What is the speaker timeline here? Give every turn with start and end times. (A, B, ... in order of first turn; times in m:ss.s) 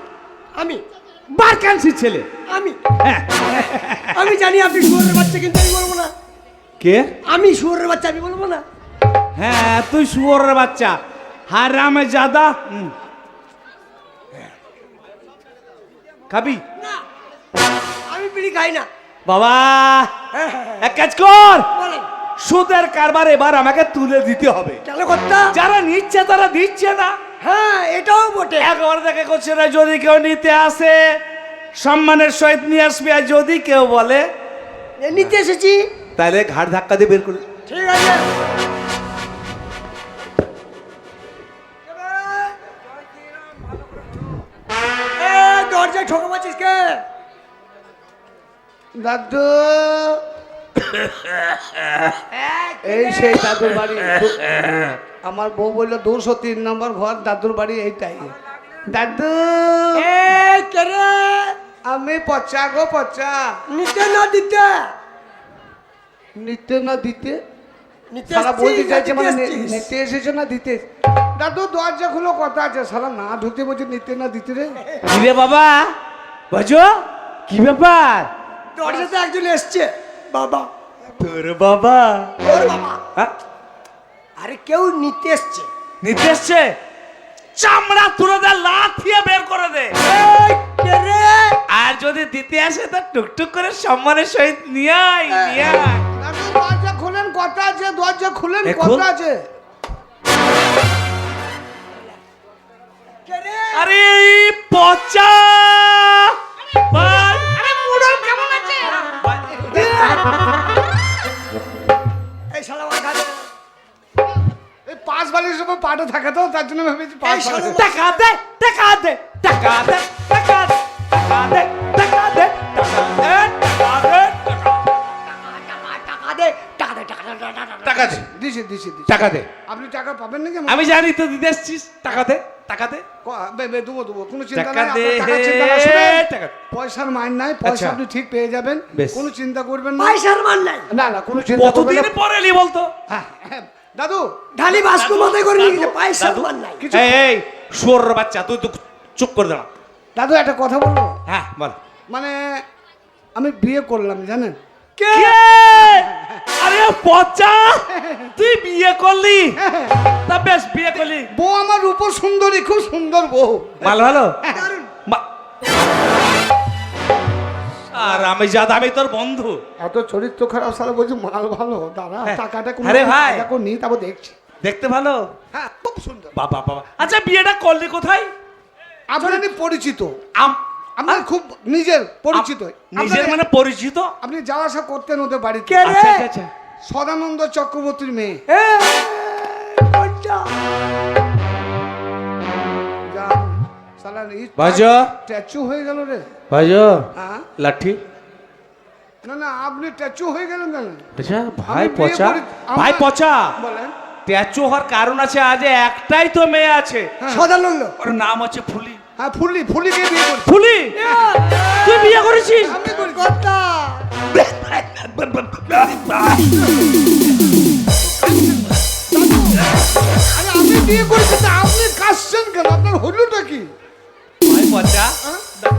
0:00.6-0:00.8 A
0:01.3-0:02.3 B
0:02.5-0:02.8 A
0:03.0-0:04.2 B
0:04.1-0:06.1 A
0:06.8-0:07.1 B
0:07.3-0:08.6 A
0:09.4-0:11.0 B
0:11.5-0:12.9 B
0:16.3-0:16.6 B
0:16.8-0:17.0 A
0:18.1-0:18.9 A
0:19.2-0:20.1 B
0:20.3-0:20.9 A
0:20.8-0:21.7 B
0:21.7-0:22.1 A
0:22.4-0:24.8 B
0:24.8-0:25.5 A
0:25.5-0:27.2 B
0:27.4-0:28.7 A
0:28.6-0:31.0 B
0:31.8-0:34.2 B
0:35.0-0:35.9 A
0:36.2-0:37.4 B
0:37.7-0:38.3 A
0:41.8-0:42.8 A
0:45.2-0:47.0 A
0:49.0-0:50.2 C
0:52.3-0:53.8 A
0:52.8-0:54.4 C
0:55.2-0:58.3 C
0:58.9-1:00.1 C
1:00.0-1:01.6 A
1:01.9-1:03.5 C
1:03.7-1:04.9 A
1:06.4-1:07.4 C
1:08.1-1:09.9 A
1:08.3-1:10.8 C
1:11.4-1:14.8 C
1:15.1-1:15.9 B
1:16.5-1:18.3 B
1:18.8-1:20.7 A
1:21.2-1:22.3 B
1:22.4-1:23.0 A
1:24.4-1:25.7 A
1:26.0-1:26.7 B
1:27.6-1:30.0 B
1:30.0-1:31.6 A
1:31.7-1:36.0 B
1:35.3-1:35.6 A
1:36.2-1:39.4 C
1:38.6-1:39.0 B
1:43.2-1:43.9 A
1:43.7-1:46.4 B
1:46.9-1:47.5 B
1:47.5-1:49.0 C
1:49.5-1:50.2 C
1:49.7-1:50.3 A
1:52.5-1:53.4 A
1:54.9-1:57.8 C
1:57.2-1:58.1 A
1:57.8-2:04.7 B
2:05.2-2:08.2 A
2:07.8-2:08.2 B
2:08.2-2:09.1 C
2:09.1-2:09.5 B
2:09.6-2:10.9 C
2:10.7-2:13.0 B
2:13.2-2:20.2 C
2:14.5-2:16.5 B
2:17.6-2:18.0 B
2:18.9-2:19.2 B
2:20.0-2:20.9 A
2:20.9-2:22.1 C
2:21.6-2:22.9 B
2:23.1-2:24.3 C
2:24.5-2:26.8 A
2:24.7-2:29.7 B
2:26.8-2:27.2 C
2:30.2-2:31.1 C
2:31.3-2:31.8 B
2:32.1-2:32.6 C
2:33.4-2:34.6 C
2:35.0-2:35.4 A
2:35.1-2:39.6 B
2:35.9-2:36.3 C
2:37.9-2:38.3 C
2:39.6-2:40.0 C
2:40.3-2:41.3 B
2:41.3-2:44.7 C
2:43.8-2:44.4 B
2:44.5-2:44.9 A
2:47.9-2:49.6 B
2:49.8-2:54.4 C
2:52.2-2:53.4 B
2:54.6-2:55.3 B
2:55.5-2:56.3 C
2:56.4-2:58.3 B
2:59.1-3:00.3 C
2:59.2-2:59.5 A
3:00.4-3:01.2 B
3:01.0-3:03.4 C
3:02.3-3:04.1 B
3:04.2-3:05.9 C
3:05.7-3:06.3 A
3:05.8-3:06.5 B
3:06.8-3:08.4 C
3:08.5-3:10.5 A
3:13.1-3:16.3 C
3:14.6-3:15.1 B
3:16.5-3:17.1 B
3:17.2-3:17.5 C
3:17.6-3:18.0 B
3:19.2-3:21.0 C
3:21.2-3:23.5 B
3:21.7-3:23.9 C
3:24.3-3:27.1 B
3:27.2-3:27.5 C
3:27.3-3:27.9 A
3:28.0-3:29.0 B
3:29.2-3:30.5 C
3:30.4-3:31.0 B
3:30.9-3:34.0 A
3:31.8-3:32.8 B
3:32.6-3:33.3 C
3:34.4-3:36.5 B
3:39.1-3:39.6 C
3:40.3-3:43.7 C
3:44.4-3:45.1 B